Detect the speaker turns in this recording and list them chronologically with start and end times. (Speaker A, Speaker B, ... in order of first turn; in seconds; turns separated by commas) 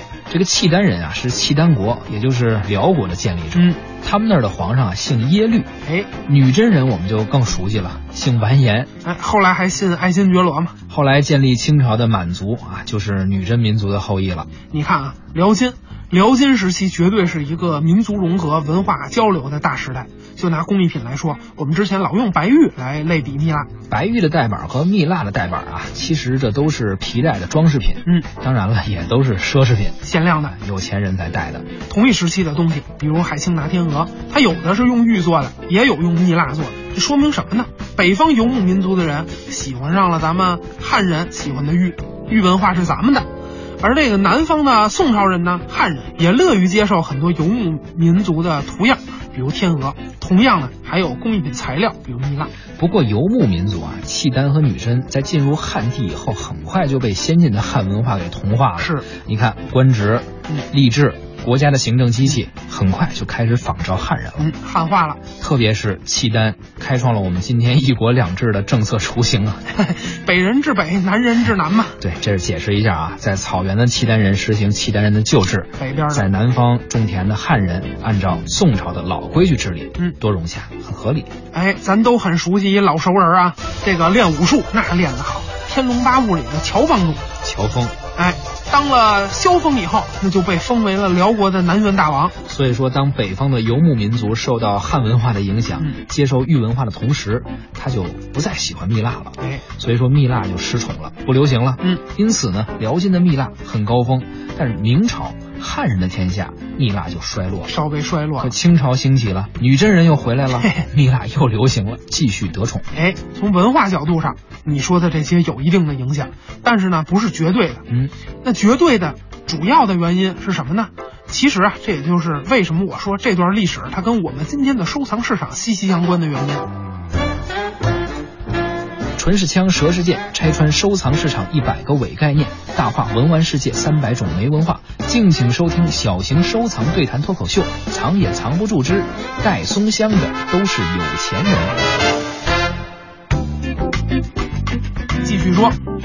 Speaker A: 0.3-5.7, Speaker B: 5.8-6.1, Speaker A: 6.2-8.9, Speaker B: 9.0-10.8, Speaker A: 10.9-14.5, Speaker B: 14.7-23.7, Speaker A: 23.9-30.0, Speaker B: 30.0-30.6, Speaker A: 30.5-31.7, Speaker B: 31.9-43.3, Speaker B: 43.8-52.5, Speaker A: 52.8-64.5, Speaker B: 58.8-59.1, Speaker B: 64.4-65.2, Speaker A: 65.4-69.6, Speaker B: 69.7-72.0, Speaker A: 72.0-81.3, Speaker B: 75.8-76.3, Speaker B: 81.5-87.2, Speaker A: 87.4-88.0, Speaker B: 88.1-92.3, Speaker A: 92.5-107.7, Speaker B: 107.7-108.5, Speaker A: 108.4-112.9, Speaker B: 112.9-117.8, Speaker B: 118.4-126.7, Speaker A: 129.2-141.8, Speaker B: 145.2-145.8